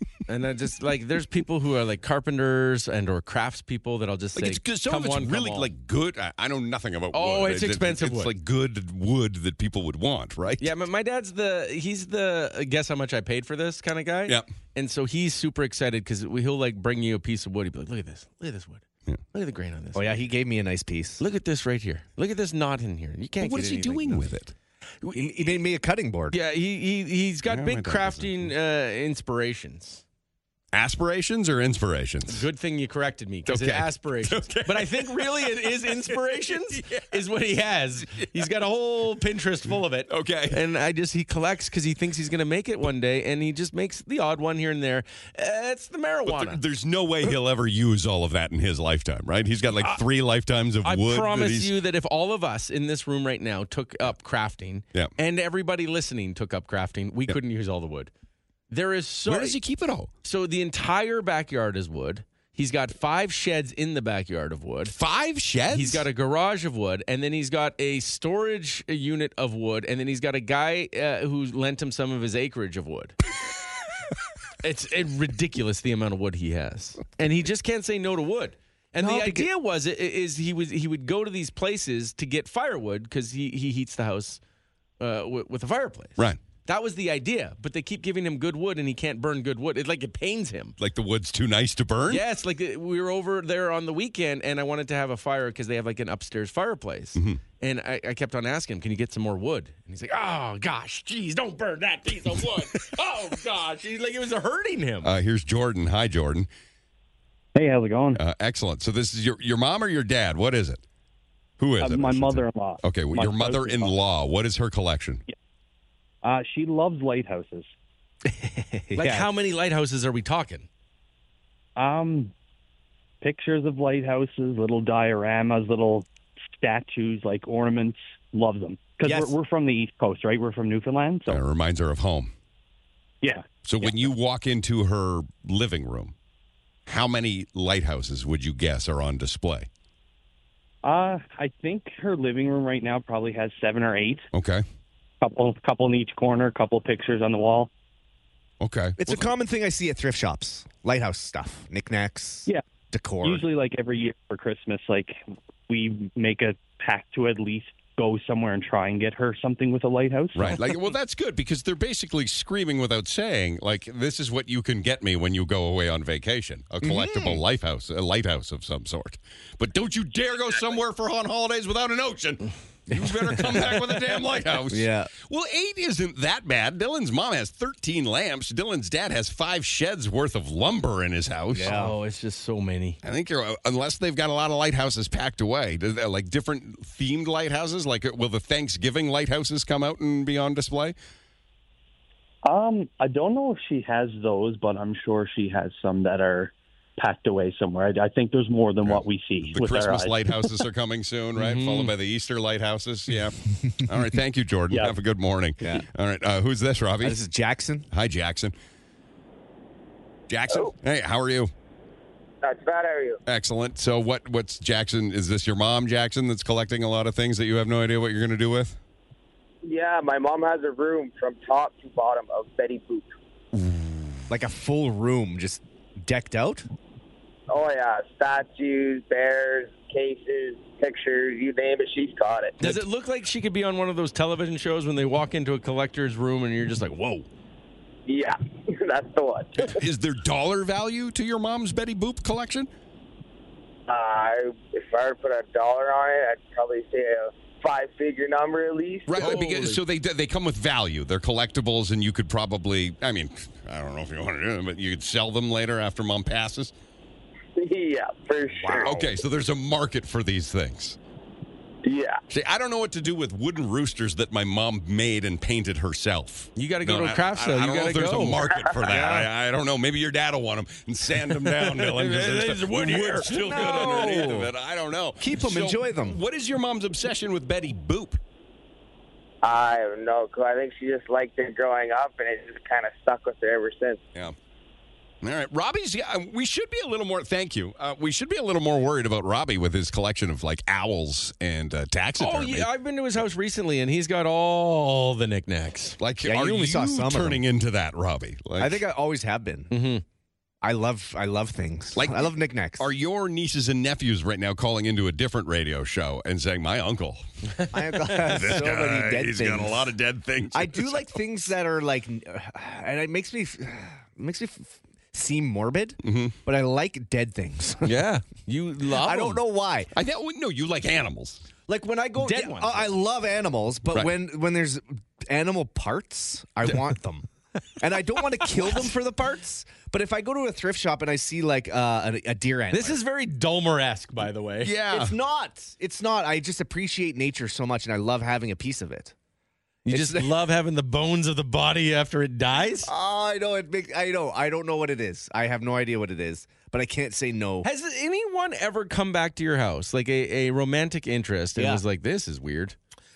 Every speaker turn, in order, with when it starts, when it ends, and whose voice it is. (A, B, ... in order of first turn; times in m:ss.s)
0:00.3-0:05.7 A
0:04.4-0:10.7 B
0:07.1-0:08.3 A
0:10.6-0:20.2 A
0:19.9-0:21.2 C
0:21.2-0:24.3 A
0:23.4-0:24.5 B
0:25.0-0:25.5 A
0:25.1-0:26.4 C
0:26.3-0:30.0 A
0:27.5-0:28.5 B
0:30.7-0:32.4 B
0:32.3-0:46.6 A
0:33.5-0:37.1 B
0:40.1-0:40.6 B
0:46.3-0:51.8 B
0:50.8-0:58.1 A
0:58.7-0:59.6 A
0:59.3-1:00.1 B
1:00.2-1:04.9 A
1:04.9-1:06.0 B
1:05.7-1:13.2 A
1:14.6-1:24.4 A
1:19.0-1:19.5 C
1:25.0-1:30.8 A
1:30.8-1:32.2 B
1:32.1-1:45.1 A
1:37.2-1:37.4 B
1:45.0-1:46.5 B
1:47.6-1:48.2 D
1:48.2-1:50.8 B
1:51.6-1:55.2 B
1:51.8-1:53.9 D
1:56.2-1:57.7 D
1:58.3-1:59.3 C
1:59.0-2:00.7 A
2:01.8-2:02.3 D
2:03.2-2:11.4 D
2:09.0-2:09.3 C
2:11.3-2:12.3 B
2:13.2-2:13.5 D
2:13.6-2:16.1 B
2:16.9-2:19.7 B
2:20.8-2:24.3 D
2:24.3-2:24.6 B
2:25.2-2:27.7 D
2:28.6-2:29.2 B
2:29.0-2:33.5 C
2:33.2-2:40.6 D
2:40.4-3:01.8 B
2:46.8-2:47.4 C
2:54.7-2:55.1 C
3:01.5-3:02.0 C
3:01.6-3:03.0 A
3:03.0-3:11.0 B
3:12.4-3:20.6 D
3:18.8-3:27.2 B
3:21.4-3:21.9 A
3:27.0-3:27.9 C
3:27.9-3:28.5 B
3:30.3-3:31.5 B
3:32.4-3:33.2 E
3:33.3-3:38.8 B
3:39.6-3:43.1 E
3:43.6-3:43.9 B
3:44.3-3:46.7 C
3:47.5-3:52.6 E
3:52.6-3:57.3 A
3:58.1-3:59.8 E
3:59.6-4:02.7 B
4:03.9-4:09.3 E
4:09.1-4:16.7 B
4:09.1-4:09.8 A
4:17.6-4:19.1 E
4:18.8-4:21.0 B
4:21.8-4:22.2 E
4:22.3-4:38.2 B
4:26.6-4:29.2 A
4:31.5-4:34.2 A
4:33.3-4:34.5 C
4:35.2-4:36.2 C
4:39.4-4:44.0 E
4:45.2-4:52.7 B
4:52.2-4:56.0 A
4:56.0-4:58.8 B
4:56.2-4:57.4 C
4:58.6-4:59.7 C
4:59.7-5:00.0 A
5:00.6-5:02.9 C
5:02.0-5:07.2 B
5:07.6-5:08.3 A
5:07.7-5:09.9 C
5:08.1-5:11.1 B
5:10.5-5:18.0 C
5:16.0-5:16.4 B
5:17.8-5:19.4 A
5:19.0-5:19.9 C
5:20.0-5:21.4 B
5:21.7-5:33.0 C
5:22.2-5:22.9 A
5:32.7-5:34.7 A
5:34.6-5:35.2 B
5:34.9-5:39.1 C
5:39.9-5:42.9 A
5:39.9-5:40.3 C
5:42.8-5:47.7 C
5:47.6-5:52.8 A
5:51.6-5:51.8 C